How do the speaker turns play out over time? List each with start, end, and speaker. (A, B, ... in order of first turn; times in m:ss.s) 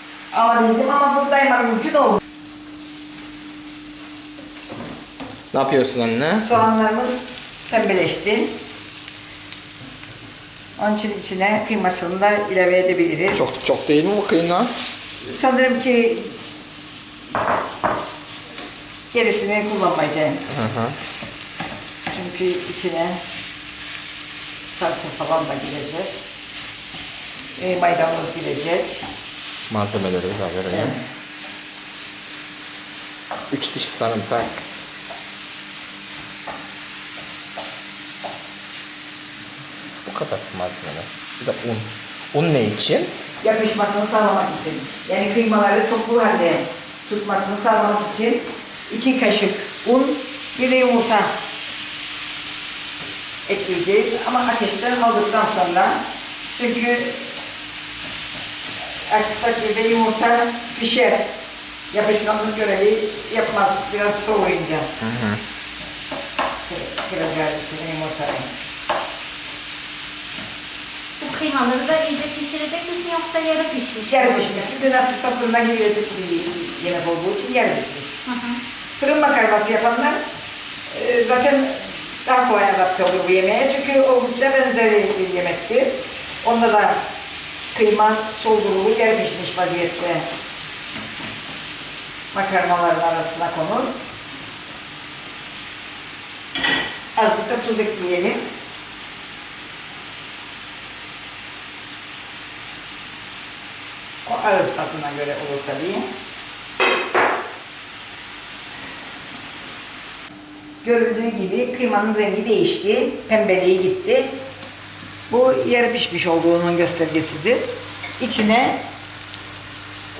0:00.3-0:02.2 A
0:05.5-0:06.5 B
0:06.4-0:08.6 A
0:10.8-0:13.5 A
0:13.3-0:14.7 B
0:15.2-0:16.4 A
0:19.1-0:20.4 A
0:20.5-0:21.0 B
0:22.1-0:23.2 A
0:24.7-0:26.2 A
0:27.6-0:29.1 A
0:29.7-0:31.0 B
0:30.7-0:31.0 A
0:33.5-0:34.6 B
0:40.0-0:43.1 B
0:43.4-0:51.3 A
0:53.4-0:56.0 A
0:56.6-0:57.3 A
0:59.1-1:01.3 A
1:01.9-1:04.9 A
1:05.0-1:05.4 B
1:06.7-1:08.5 A
1:11.2-1:14.7 C
1:14.1-1:18.2 A
1:18.2-1:18.6 C
1:19.0-1:20.2 A
1:20.9-1:27.0 A
1:27.7-1:30.2 A
1:32.3-1:33.9 A
1:37.2-1:38.4 A
1:44.2-1:46.1 A
1:50.8-1:54.4 A
1:55.3-1:58.8 A